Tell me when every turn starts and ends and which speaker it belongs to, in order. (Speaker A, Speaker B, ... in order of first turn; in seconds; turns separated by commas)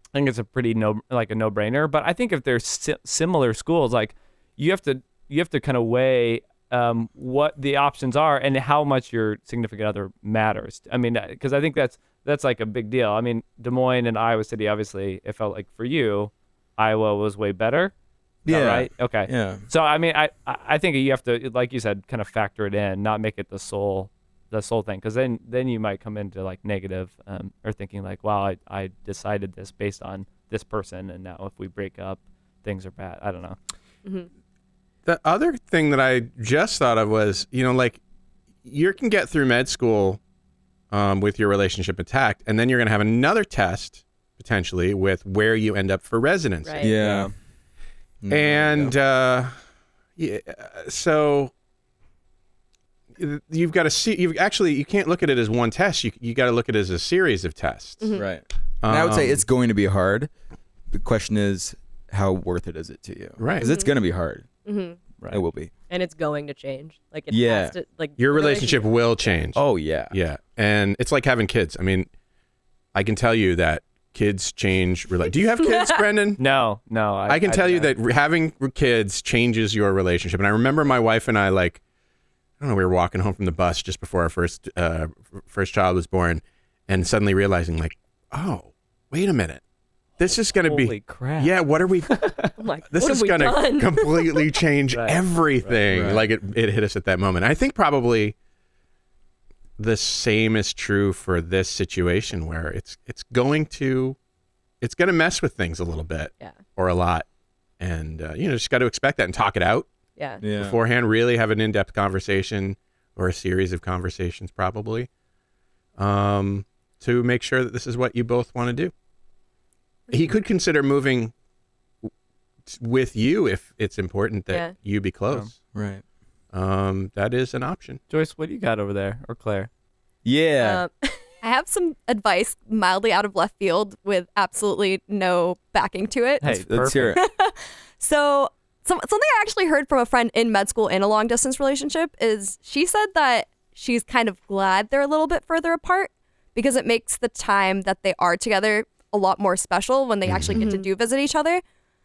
Speaker A: 0.1-17.9, Speaker B: 18.4-19.6, Speaker A: 18.5-33.6, Speaker C: 35.1-38.0, Speaker C: 38.6-40.2, Speaker C: 40.9-46.8, Speaker D: 46.6-47.0, Speaker B: 46.8-47.3, Speaker A: 47.0-47.3, Speaker B: 48.2-49.0, Speaker C: 48.3-49.5, Speaker C: 50.2-51.5, Speaker C: 53.2-58.1, Speaker D: 58.0-58.3, Speaker B: 58.1-60.3, Speaker C: 58.8-59.5, Speaker B: 60.9-64.5, Speaker C: 63.4-63.7, Speaker D: 63.6-63.9, Speaker D: 64.7-65.0, Speaker B: 65.3-65.7, Speaker D: 65.9-69.4, Speaker B: 67.3-67.8, Speaker C: 68.2-72.1, Speaker B: 69.5-70.2, Speaker C: 72.9-76.4, Speaker D: 75.6-76.0, Speaker A: 76.4-77.9, Speaker C: 77.3-81.8, Speaker C: 82.6-89.6, Speaker C: 90.2-92.3, Speaker A: 90.3-91.5, Speaker A: 92.1-92.5, Speaker D: 92.6-94.4, Speaker C: 92.9-98.4, Speaker A: 94.9-95.8, Speaker B: 95.9-96.2, Speaker C: 99.8-104.2, Speaker C: 104.8-107.3, Speaker C: 107.8-109.9, Speaker D: 110.2-110.4, Speaker B: 110.4-110.8, Speaker C: 110.5-115.1, Speaker C: 116.0-118.9, Speaker C: 120.1-121.3, Speaker C: 122.7-125.5, Speaker D: 124.5-124.8, Speaker B: 125.7-126.0, Speaker C: 126.5-128.0, Speaker A: 128.1-129.7, Speaker B: 130.2-130.8, Speaker D: 130.6-131.2, Speaker E: 131.4-151.6, Speaker A: 136.4-137.1, Speaker B: 136.4-137.2, Speaker C: 150.3-150.6, Speaker D: 150.6-150.9